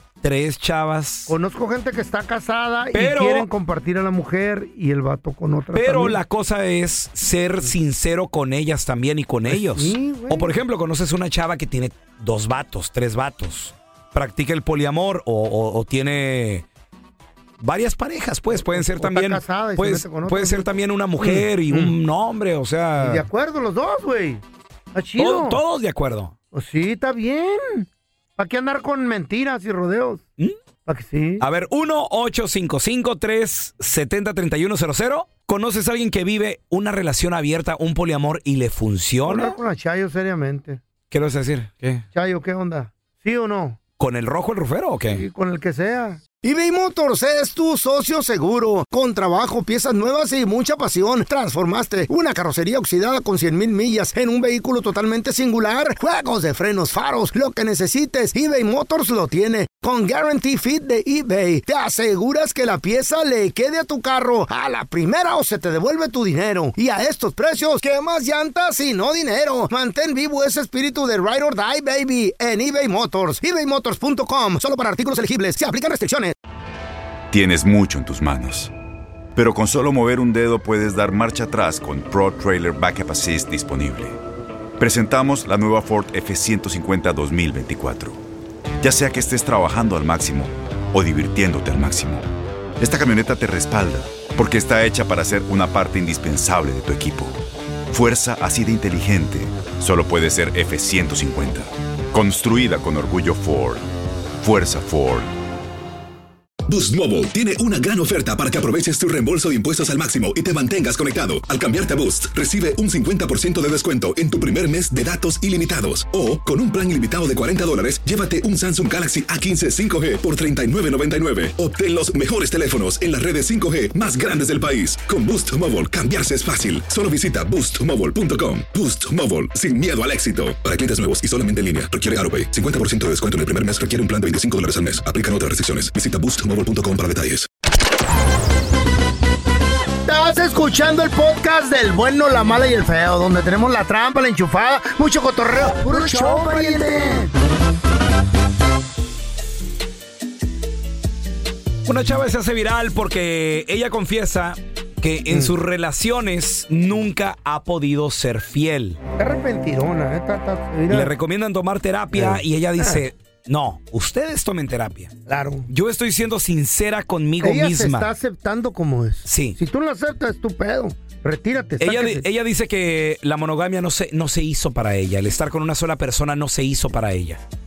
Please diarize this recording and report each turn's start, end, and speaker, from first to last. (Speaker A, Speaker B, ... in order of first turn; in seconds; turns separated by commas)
Speaker A: 0.2-1.3, Speaker B: 1.3-6.2, Speaker A: 2.9-3.5, Speaker A: 5.7-16.7, Speaker B: 9.5-10.6, Speaker A: 17.6-23.3, Speaker B: 18.5-22.0, Speaker B: 23.0-24.4, Speaker B: 24.9-25.6, Speaker A: 25.2-26.3, Speaker B: 26.5-30.2, Speaker B: 30.9-31.4, Speaker A: 31.4-39.6, Speaker B: 39.3-40.8, Speaker A: 41.1-42.0, Speaker B: 42.1-43.8, Speaker A: 44.0-45.2, Speaker B: 45.1-76.3, Speaker C: 77.3-78.7, Speaker C: 79.4-84.2, Speaker C: 84.8-88.2, Speaker C: 88.8-92.3, Speaker C: 92.8-103.8, Speaker C: 104.4-105.3, Speaker D: 106.7-137.5, Speaker B: 140.1-147.3, Speaker A: 151.8-159.0, Speaker B: 155.3-155.6, Speaker B: 159.2-161.1, Speaker A: 160.9-165.1, Speaker B: 162.1-163.0, Speaker B: 165.3-165.7, Speaker A: 165.7-168.1, Speaker B: 167.4-172.3, Speaker A: 169.3-169.6, Speaker A: 171.8-177.4